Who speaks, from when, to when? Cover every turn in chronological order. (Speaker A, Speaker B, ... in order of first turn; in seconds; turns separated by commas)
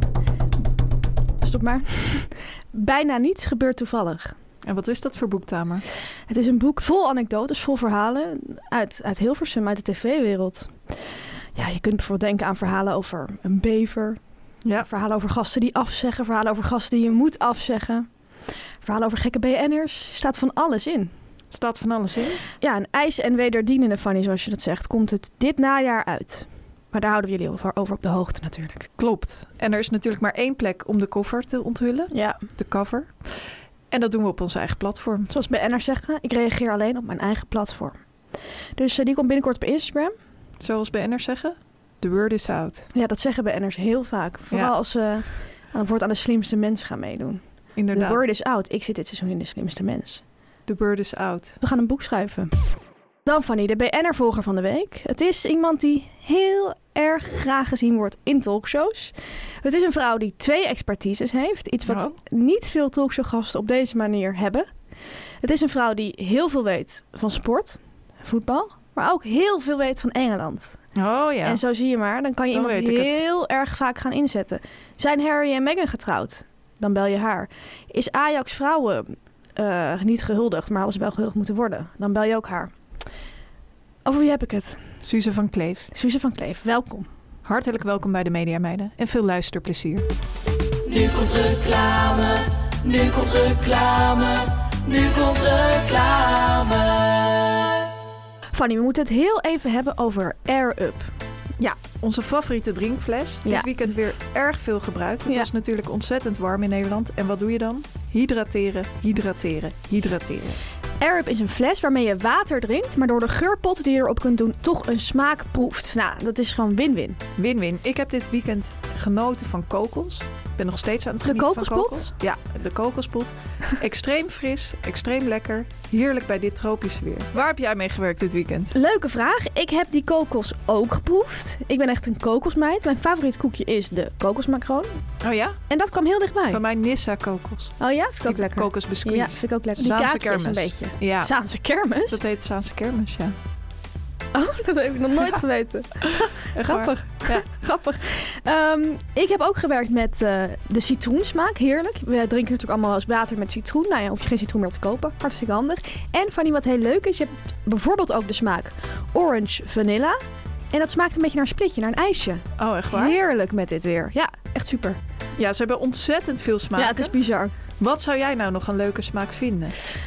Speaker A: 1.4-4.3, Speaker B: 4.6-5.8, Speaker A: 6.3-14.2, Speaker A: 14.8-18.1, Speaker A: 18.8-21.1, Speaker B: 21.5-22.4, Speaker A: 22.6-28.9, Speaker B: 29.0-35.3, Speaker A: 32.1-32.4, Speaker A: 35.3-38.0, Speaker A: 38.8-40.1, Speaker B: 40.6-42.9, Speaker A: 42.9-50.2, Speaker B: 47.8-48.2, Speaker B: 50.7-51.6, Speaker A: 51.6-52.5, Speaker A: 53.2-64.7, Speaker B: 61.9-62.2, Speaker A: 65.4-70.8, Speaker B: 71.0-71.6, Speaker A: 71.5-82.7, Speaker B: 72.5-73.2, Speaker A: 84.0-84.8, Speaker B: 85.0-85.9, Speaker A: 85.9-87.1, Speaker B: 87.5-90.1, Speaker C: 90.9-97.7, Speaker A: 98.5-101.1, Speaker B: 101.6-110.6, Speaker A: 111.0-117.2, Speaker B: 117.4-128.7, Speaker A: 121.2-122.1, Speaker A: 128.7-135.0, Speaker B: 135.2-135.6, Speaker A: 135.7-136.6, Speaker B: 136.5-141.3, Speaker A: 137.8-142.2, Speaker B: 142.1-143.4, Speaker A: 144.3-160.2, Speaker B: 146.4-147.5, Speaker A: 160.7-165.0, Speaker B: 162.6-163.2, Speaker B: 165.4-167.2, Speaker A: 166.8-167.5, Speaker B: 167.8-169.8